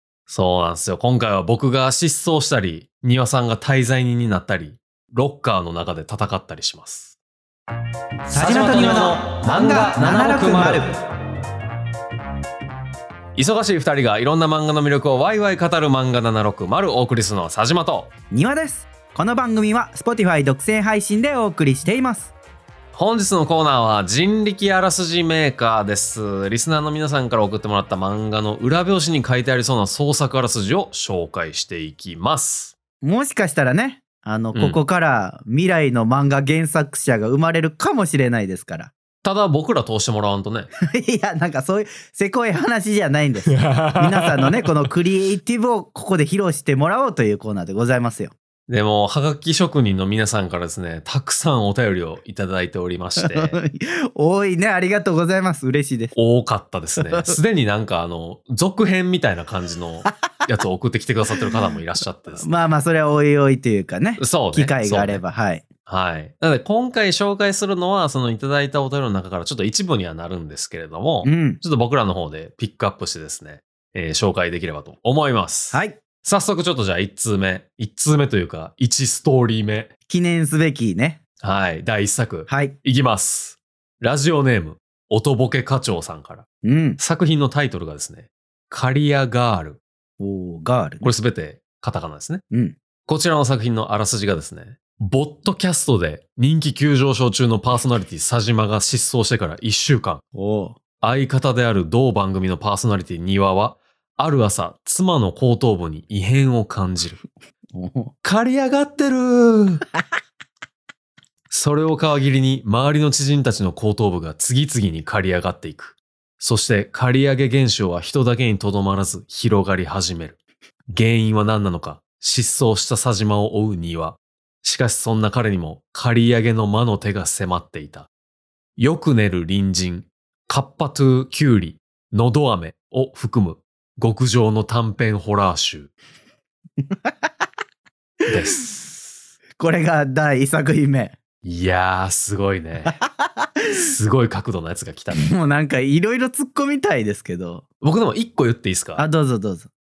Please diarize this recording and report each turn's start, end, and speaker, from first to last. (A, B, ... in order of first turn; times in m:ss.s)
0:00.3-0:07.1 A
0:08.3-0:10.9 B
0:08.3-0:11.0 A
0:13.3-0:18.1 A
0:18.3-0:22.3 B
0:22.9-0:32.8 A
0:33.0-0:38.9 B
0:34.5-0:34.8 A
0:39.2-0:40.7 A
0:40.8-0:48.3 B
0:43.5-0:44.7 A
0:48.7-0:53.6 A
0:53.2-0:56.1 B
0:56.1-1:02.6 A
0:57.1-0:57.4 B
1:02.4-1:05.6 B
1:04.2-1:05.2 A
1:05.9-1:19.9 A
1:11.2-1:11.6 B
1:15.7-1:16.0 B
1:20.1-1:21.2 B
1:21.4-1:26.4 A
1:22.5-1:22.8 B
1:26.6-1:27.0 B
1:27.0-1:29.8 A
1:30.2-1:31.1 B
1:31.0-1:32.4 A
1:32.5-1:32.8 B
1:33.0-1:40.2 A
1:40.3-1:40.8 B
1:41.0-1:47.2 A
1:47.7-1:48.1 B
1:48.2-1:49.8 A
1:51.5-2:00.4 A
2:00.9-2:08.1 A
2:08.8-2:15.9 A
2:16.9-2:17.1 B
2:18.3-2:18.8 A
2:19.6-2:21.2 B
2:21.4-2:23.0 A
2:22.9-2:23.8 B
2:23.7-2:25.3 A
2:25.2-2:27.6 B
2:27.8-2:29.0 A
2:29.0-2:29.7 B